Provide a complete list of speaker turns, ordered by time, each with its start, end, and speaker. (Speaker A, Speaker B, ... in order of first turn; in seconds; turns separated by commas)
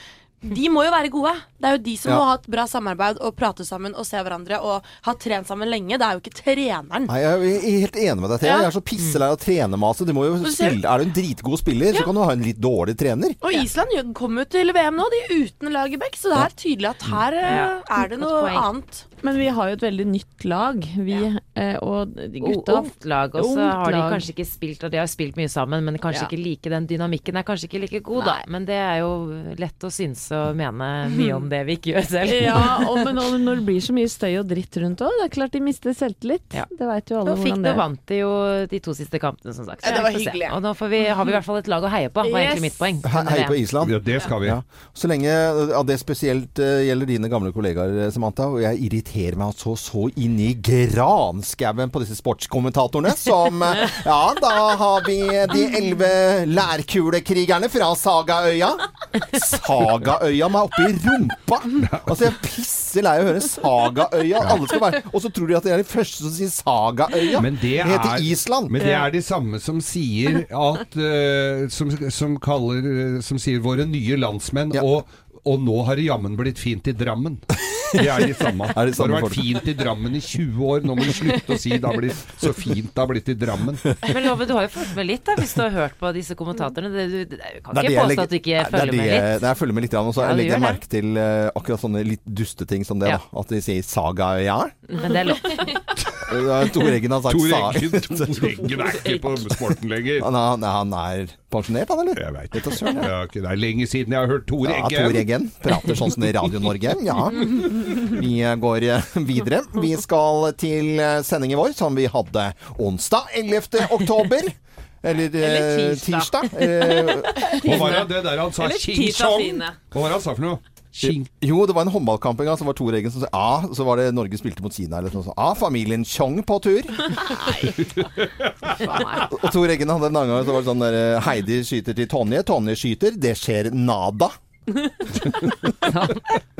Speaker A: 0.4-7.1, Speaker B: 7.1-13.4, Speaker A: 8.4-8.7, Speaker A: 10.4-10.8, Speaker A: 13.4-19.1, Speaker C: 17.4-18.7, Speaker D: 19.2-24.2, Speaker C: 22.4-33.0, Speaker A: 31.1-31.4, Speaker D: 32.2-37.8, Speaker C: 37.2-43.6, Speaker A: 39.8-40.6, Speaker D: 42.2-42.8, Speaker B: 43.0-68.8, Speaker E: 43.8-44.6, Speaker E: 61.8-62.2, Speaker E: 67.4-83.9, Speaker B: 78.7-79.6, Speaker C: 84.0-89.4, Speaker B: 87.7-94.8, Speaker C: 90.2-90.8, Speaker C: 95.0-95.7, Speaker D: 95.5-95.8, Speaker B: 96.2-99.5, Speaker E: 97.2-100.3, Speaker B: 100.2-103.1, Speaker E: 102.1-105.3, Speaker B: 104.6-117.5, Speaker D: 115.4-119.8, Speaker E: 117.6-121.3, Speaker B: 121.0-127.2, Speaker D: 127.2-127.7, Speaker E: 127.6-129.3, Speaker D: 128.8-129.2, Speaker B: 129.3-134.4